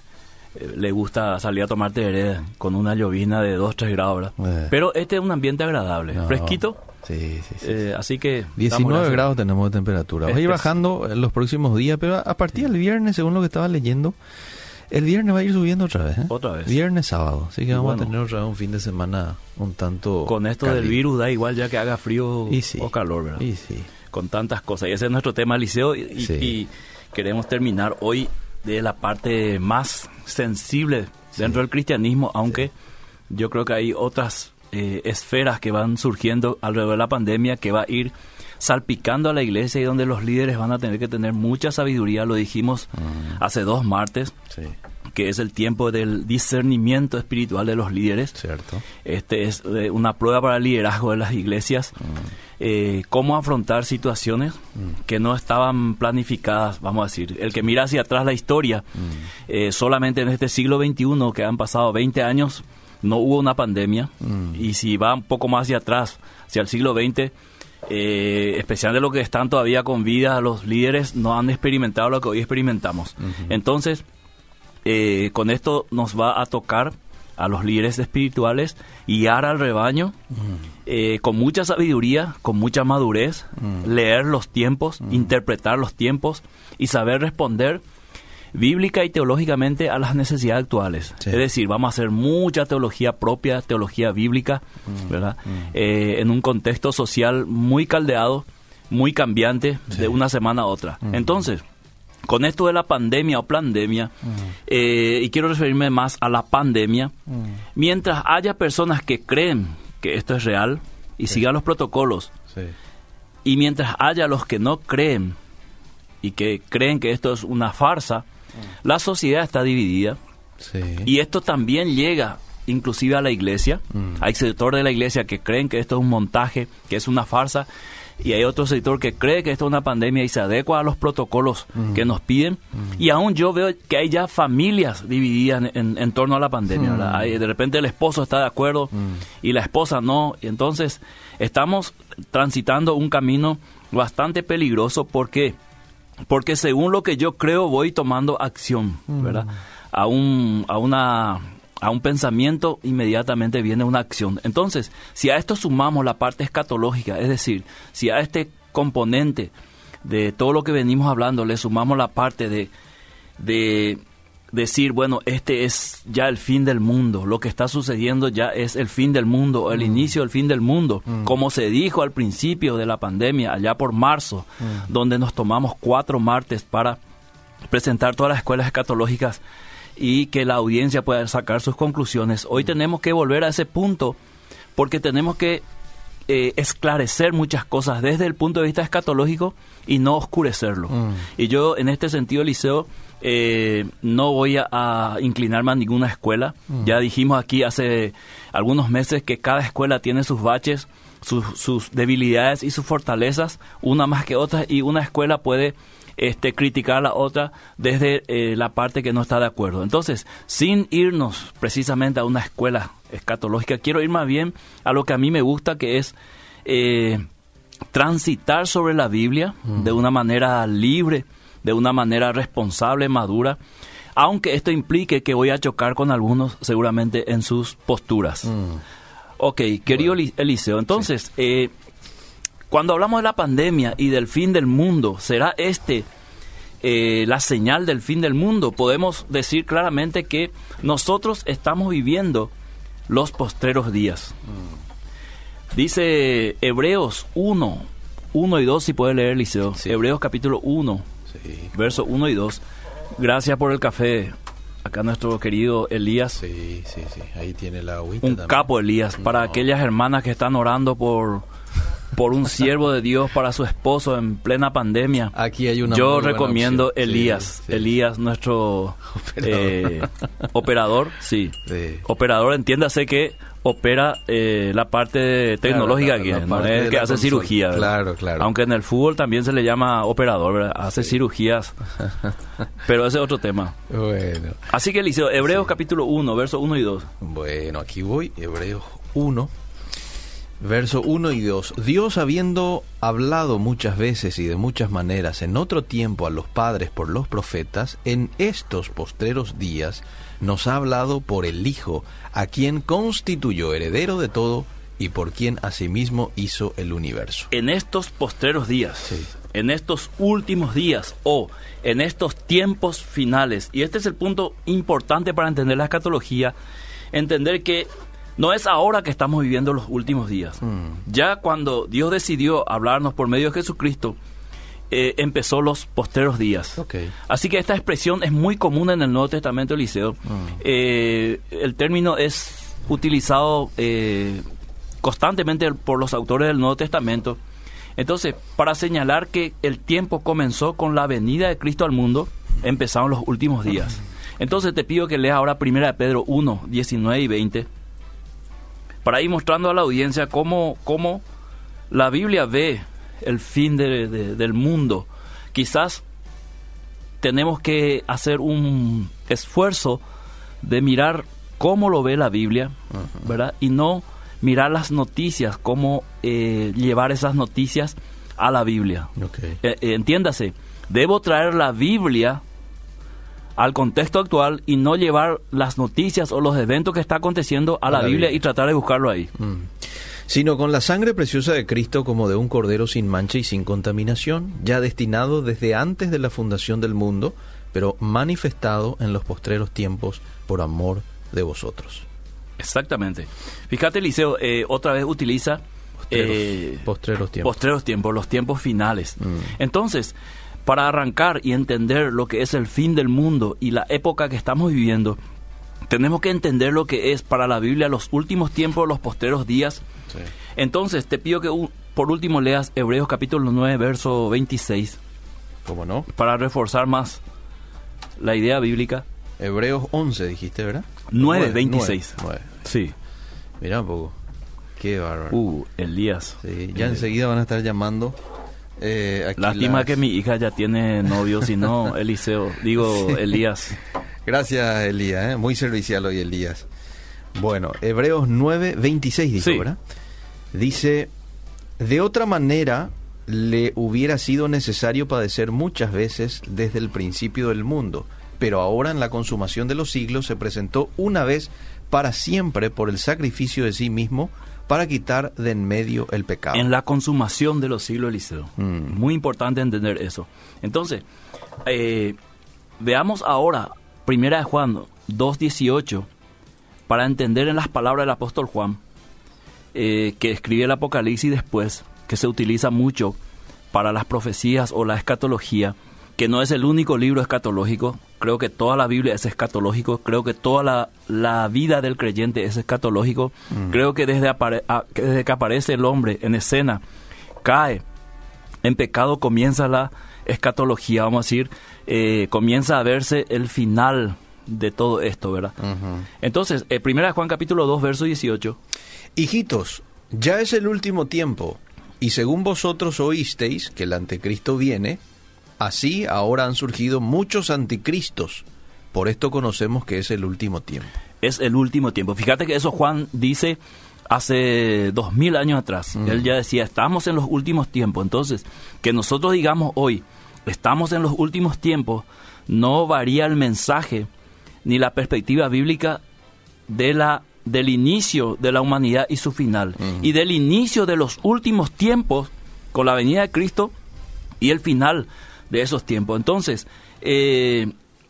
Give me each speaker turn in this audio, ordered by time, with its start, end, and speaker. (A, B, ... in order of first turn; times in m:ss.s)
0:00.6-0:06.8 A
0:04.4-0:04.7 B
0:06.1-0:07.8 B
0:07.6-0:09.3 A
0:08.6-0:14.2 B
0:10.3-0:10.8 A
0:14.9-0:21.0 B
0:16.3-0:16.8 A
0:17.7-0:18.1 A
0:20.3-0:23.4 A
0:22.5-0:23.9 B
0:24.1-0:32.7 A
0:26.2-0:26.5 B
0:33.3-0:44.4 A
0:43.0-0:43.4 B
0:45.2-0:48.4 A
0:48.4-0:48.8 B
0:49.0-0:52.0 A
0:52.6-0:58.9 A
0:59.5-1:07.3 A
1:04.2-1:04.6 B
1:07.9-1:14.0 A
1:14.8-1:20.2 A
1:20.9-1:27.8 A
1:28.5-1:41.6 A
1:42.2-1:44.1 A
1:44.7-1:47.1 A
1:47.8-1:52.3 A
1:53.4-1:55.4 A
1:56.2-1:58.2 A
1:58.8-2:00.2 A
2:00.6-2:01.1 B
2:01.0-2:07.7 A
2:04.0-2:04.2 B
2:08.2-2:25.6 A
2:16.8-2:17.3 B
2:26.3-2:39.5 A
2:29.1-2:29.5 B
2:40.0-2:42.7 A
2:43.4-2:44.0 A
2:44.5-2:57.0 A
2:49.8-2:50.1 B
2:57.7-2:59.4 A
3:00.0-3:04.2 A
3:04.8-3:05.6 A
3:06.3-3:37.2 A
3:10.9-3:11.2 B
3:37.9-3:43.6 A
3:44.2-3:48.6 A
3:48.5-3:48.8 B
3:49.4-3:51.7 A
3:52.7-3:56.1 A
3:56.8-4:02.5 A
4:03.1-4:04.4 A
4:05.7-4:11.1 A
4:11.3-4:11.7 B
4:11.7-4:12.6 A
4:13.2-4:14.3 A
4:14.8-4:16.4 A
4:16.4-4:18.7 B
4:18.2-4:21.4 A
4:19.2-4:19.5 B
4:22.1-4:25.3 A
4:25.3-4:27.9 B
4:25.9-4:41.8 A
4:29.1-4:30.3 B
4:31.6-4:32.0 B
4:35.6-4:38.5 B
4:42.8-4:43.8 A
4:43.9-4:44.7 B
4:44.7-4:47.1 A
4:47.2-4:49.5 B
4:50.6-5:07.5 B
5:07.5-5:16.5 A
5:17.1-5:24.2 A
5:20.6-5:21.0 B
5:24.9-5:34.4 A
5:26.8-5:27.1 B
5:30.3-5:30.6 B
5:35.0-5:37.4 A
5:38.0-5:47.7 A
5:49.0-5:51.2 A
5:51.9-5:56.0 A
5:57.2-6:00.0 A
6:00.6-6:12.4 A
6:09.2-6:09.6 B
6:13.6-6:19.3 A
6:17.9-6:18.4 B
6:19.4-6:32.1 B
6:32.6-6:36.9 A
6:36.1-6:37.5 B
6:37.4-6:40.2 A
6:40.7-6:45.2 A
6:45.9-6:49.8 A
6:50.6-6:55.0 A
6:55.6-6:56.1 B
6:56.1-6:57.2 A
6:58.2-6:59.1 A
6:59.4-7:02.6 B
7:01.1-7:02.9 A
7:03.6-7:04.2 B
7:04.8-7:05.4 B
7:05.3-7:07.0 A
7:06.4-7:08.2 B
7:08.8-7:10.0 B
7:09.4-7:13.8 A
7:14.2-7:16.7 B
7:17.4-7:19.8 B
7:19.4-7:19.7 A
7:20.5-7:21.1 B
7:21.8-7:36.7 B
7:36.5-7:41.0 A
7:38.6-7:39.0 B
7:41.7-7:42.2 A
7:42.8-7:46.1 A
7:46.9-7:48.8 A
7:49.7-7:53.2 A
7:53.7-8:06.8 A
8:07.4-8:07.8 A
8:08.6-8:15.6 A
8:15.6-8:16.1 B
8:16.2-8:18.6 A
8:19.2-8:25.0 B
8:25.6-8:31.0 B
8:31.2-8:33.6 A
8:34.1-8:44.1 A
8:44.6-8:46.0 A
8:46.7-8:53.7 A
8:54.4-8:57.7 A